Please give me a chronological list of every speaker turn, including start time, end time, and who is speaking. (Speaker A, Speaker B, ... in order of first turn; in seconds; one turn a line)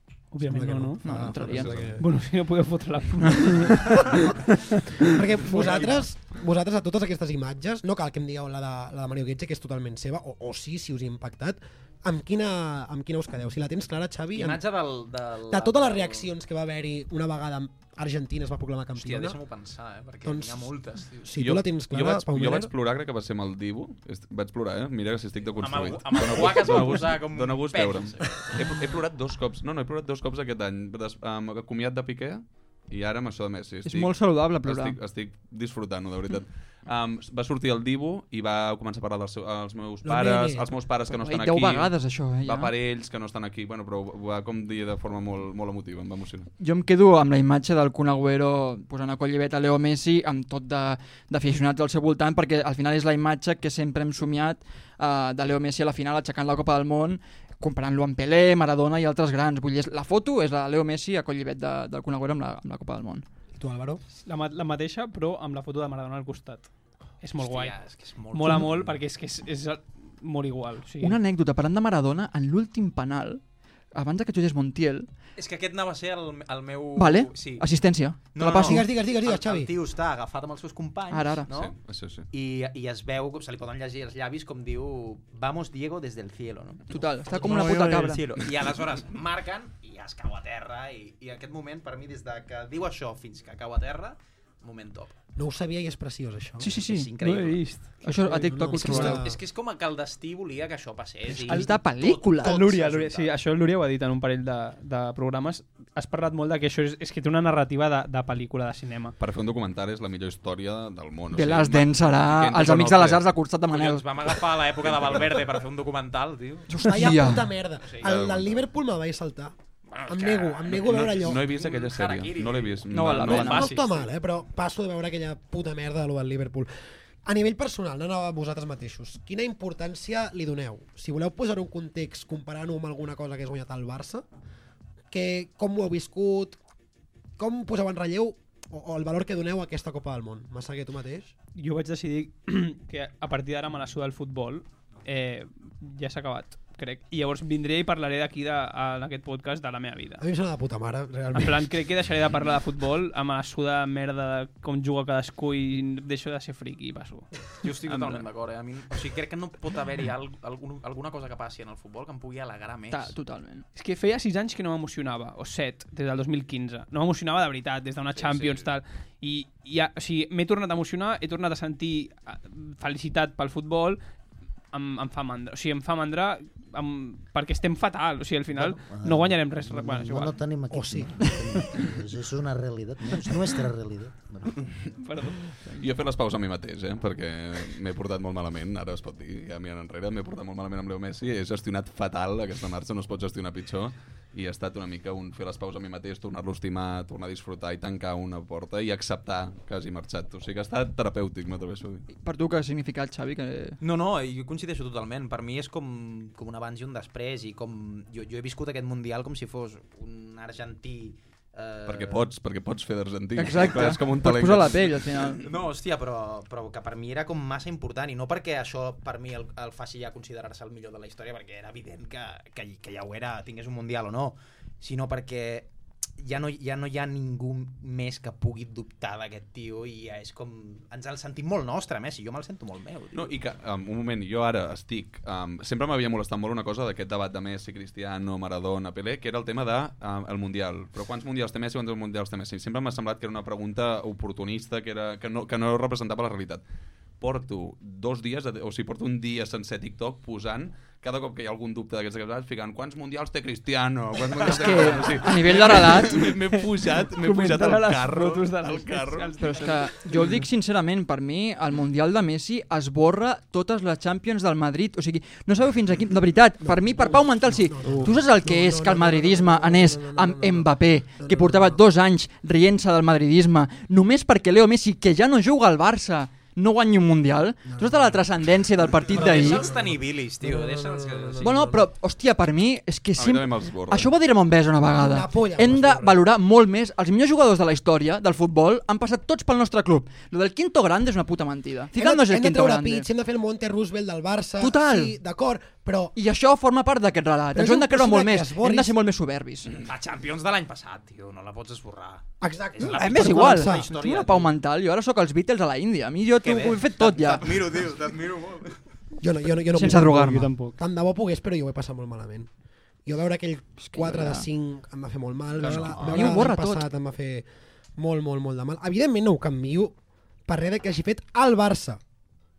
Speaker A: 0.3-1.1
Speaker B: 0.4-2.1
Speaker C: 1.0-1.8
Speaker D: 1.4-2.0
Speaker A: 2.0-5.1
Speaker B: 5.1-14.6
Speaker E: 5.5-6.0
Speaker E: 14.3-16.3
Speaker B: 15.5-19.4
Speaker E: 19.0-21.3
Speaker B: 20.2-22.7
Speaker D: 21.4-46.5
Speaker E: 25.6-28.5
Speaker C: 33.9-35.0
Speaker B: 40.0-40.7
Speaker C: 41.1-42.7
Speaker C: 46.6-63.2
Speaker B: 63.6-64.0
Speaker A: 64.2-66.7
Speaker A: 67.2-67.8
Speaker E: 67.4-68.9
Speaker A: 68.3-71.2
Speaker C: 71.0-73.4
Speaker C: 73.9-75.1
Speaker E: 75.4-77.7
Speaker C: 77.0-78.9
Speaker E: 78.3-81.7
Speaker B: 78.6-79.7
Speaker C: 81.1-81.5
Speaker D: 81.5-82.3
Speaker E: 82.3-95.2
Speaker C: 86.9-88.3
Speaker B: 95.4-96.7
Speaker C: 96.6-97.1
Speaker E: 96.7-97.6
Speaker A: 97.2-98.0
Speaker C: 98.0-99.2
Speaker B: 98.1-99.4
Speaker E: 98.8-103.3
Speaker C: 101.3-102.6
Speaker A: 101.5-101.8
Speaker A: 102.4-109.2
Speaker D: 109.2-113.2
Speaker C: 111.3-114.1
Speaker E: 113.7-116.7
Speaker C: 116.7-117.5
Speaker B: 116.8-119.5
Speaker D: 118.0-118.7
Speaker E: 119.9-124.1
Speaker B: 120.1-121.4
Speaker D: 120.7-123.6
Speaker C: 122.9-123.7
Speaker B: 123.4-126.7
Speaker B: 127.2-134.2
Speaker B: 135.1-136.6
Speaker B: 137.4-141.3
Speaker A: 141.6-150.2
Speaker B: 150.2-151.7
Speaker A: 151.3-157.3
Speaker E: 157.6-163.2
Speaker C: 162.9-163.7
Speaker A: 163.8-174.0
Speaker E: 168.2-168.7
Speaker A: 174.7-180.4
Speaker F: 178.6-184.7
Speaker B: 180.7-181.3
Speaker A: 185.0-185.6
Speaker D: 185.8-202.1
Speaker C: 202.1-203.8
Speaker E: 203.8-212.3
Speaker D: 211.9-215.3
Speaker C: 213.4-215.4
Speaker E: 215.4-225.7
Speaker E: 226.2-233.3
Speaker D: 233.1-246.6
Speaker D: 247.2-259.4
Speaker C: 254.4-256.3
Speaker A: 256.6-260.1
Speaker C: 259.4-279.7
Speaker B: 266.6-271.8
Speaker B: 277.7-278.2
Speaker E: 279.1-281.6
Speaker B: 279.1-281.8
Speaker C: 281.4-293.1
Speaker D: 283.2-284.1
Speaker B: 285.0-286.2
Speaker B: 291.9-296.1
Speaker C: 294.6-295.2
Speaker C: 296.2-299.8
Speaker B: 297.5-299.0
Speaker E: 299.7-304.5
Speaker B: 302.4-303.9
Speaker C: 302.8-307.6
Speaker E: 306.4-308.6
Speaker B: 309.2-312.5
Speaker C: 309.7-310.7
Speaker B: 313.1-319.9
Speaker C: 313.8-314.5
Speaker D: 315.6-316.0
Speaker C: 316.0-316.9
Speaker B: 320.5-322.0